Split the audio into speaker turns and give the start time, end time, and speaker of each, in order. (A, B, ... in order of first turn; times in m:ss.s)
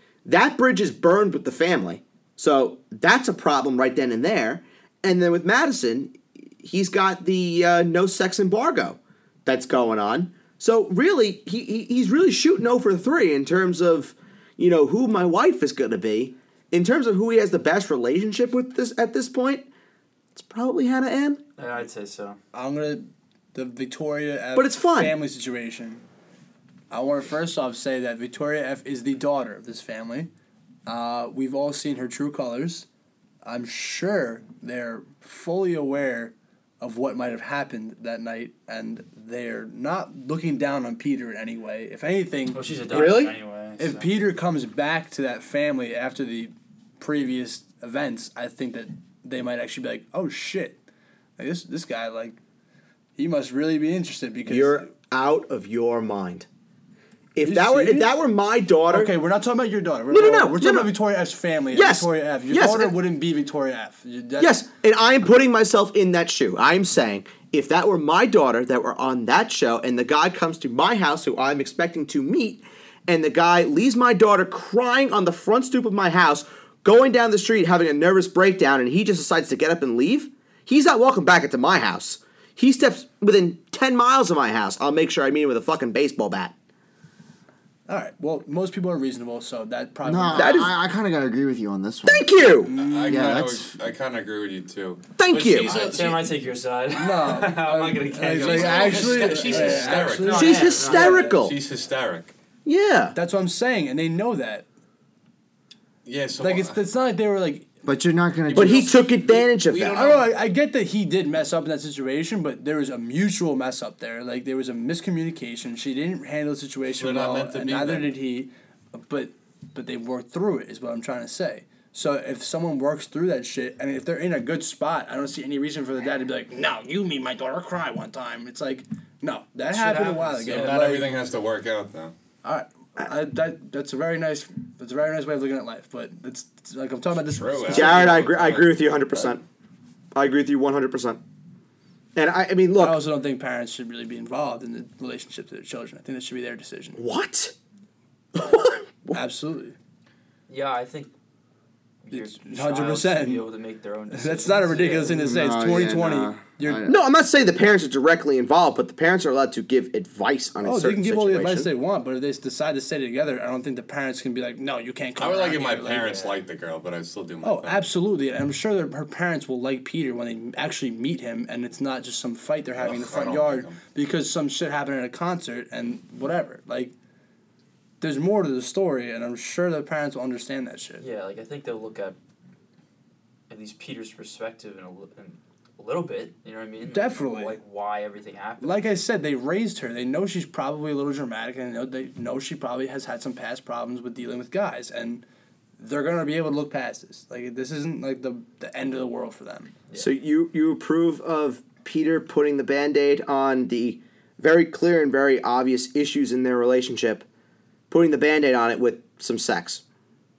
0:00.2-0:19.7 A
0:20.3-0:21.4 A
0:21.6-0:22.4 B
0:22.5-0:26.0 C
0:24.5-0:25.1 A
0:26.9-0:30.3 C
0:30.8-0:32.8 C
0:33.4-0:43.2 C
0:42.5-0:44.0 B
0:42.9-0:43.3 A
0:43.8-0:50.8 C
0:51.4-0:52.4 C
0:53.2-0:54.9 C
0:54.5-0:56.5 A
0:57.3-0:59.1 A
0:57.4-0:58.1 C
0:58.9-1:04.6 C
1:00.1-1:00.9 A
1:01.7-1:03.0 A
1:04.4-1:26.5 A
1:27.9-1:30.7 C
1:30.0-1:32.3 D
1:30.3-1:30.7 A
1:32.1-1:32.7 A
1:32.6-1:33.4 C
1:32.7-1:36.3 E
1:33.0-1:33.7 D
1:35.2-1:35.9 A
1:35.6-1:41.3 B
1:37.0-1:41.4 C
1:38.3-1:42.3 E
1:40.3-1:41.6 A
1:42.6-1:43.2 A
1:43.1-1:44.6 C
1:46.0-1:46.8 E
1:46.4-1:47.7 C
1:47.8-1:49.0 D
1:48.5-1:50.3 E
1:48.5-1:50.2 A
1:49.8-2:11.1 C
1:57.0-1:58.2 E
2:09.7-2:10.6 B
2:10.0-2:12.1 E
2:12.4-2:18.3 C
2:17.2-2:19.3 E
2:17.7-2:19.4 A
2:20.1-2:21.2 A
2:22.1-2:23.0 A
2:22.8-2:27.0 C
2:27.0-2:27.5 A
2:28.3-2:29.2 A
2:29.1-2:29.7 C
2:30.5-2:31.1 B
2:32.0-2:35.2 B
2:32.1-2:33.4 C
2:34.1-2:36.9 C
2:35.1-2:37.0 D
2:36.8-2:41.7 A
2:40.6-2:46.2 C
2:45.2-2:47.9 E
2:45.9-2:46.4 B
2:47.4-2:56.9 C
2:52.8-2:53.8 E
2:58.0-3:01.0 C
3:01.0-3:02.2 B
3:03.5-3:08.9 B
3:06.9-3:07.6 C
3:08.6-3:15.2 C
3:15.8-3:19.7 C
3:20.0-3:27.2 A
3:27.9-3:29.8 A